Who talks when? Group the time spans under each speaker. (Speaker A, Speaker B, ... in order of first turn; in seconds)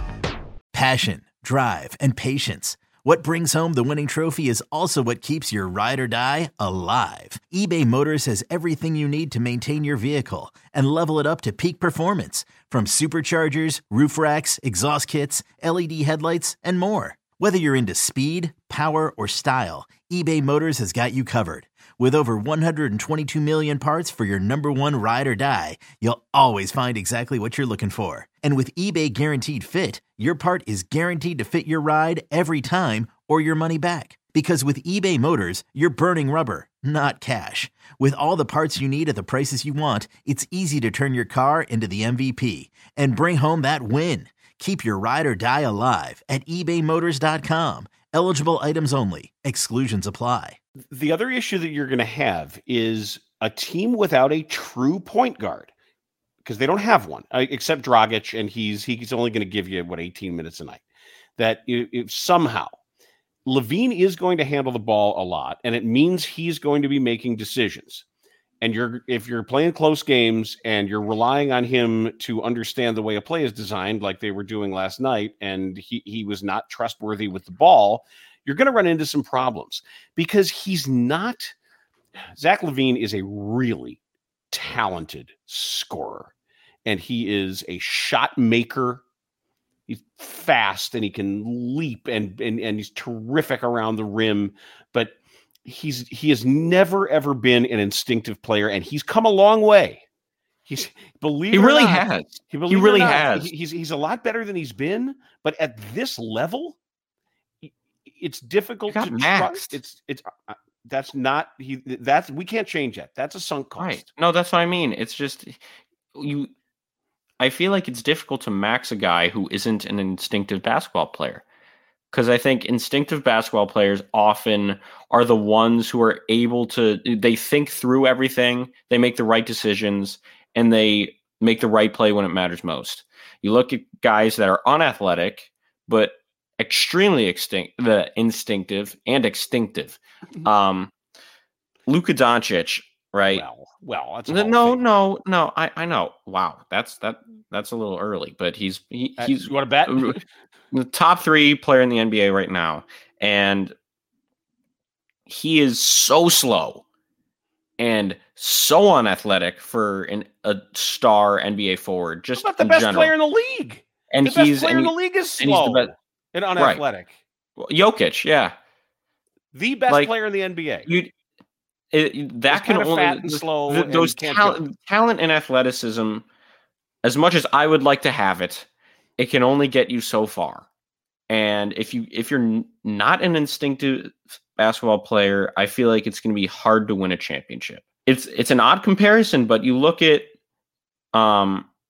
Speaker A: 0.7-50.6
Speaker B: 50.9-55.7, 56.4-60.8, 61.4-62.7, 63.5-68.0, 68.6-81.5, 82.3-84.0, 84.5-86.3, 86.8-89.0, 89.9-95.1, 95.6-100.0, 100.7-106.8, 107.6-114.0, 143.3-144.8, 149.2-150.2, 162.3-167.2, 169.5-170.9, 172.5-174.6
Speaker C: 101.5-103.5, 108.9-109.7, 113.8-115.6, 116.1-116.5, 117.4-121.4, 122.1-140.9, 141.9-143.4, 144.3-150.2, 150.7-153.7, 155.3-156.8, 157.8-163.1, 164.1-165.9, 166.6-166.8, 167.6-168.5, 171.9-176.2, 177.0-180.7, 181.3-190.3, 191.1-191.7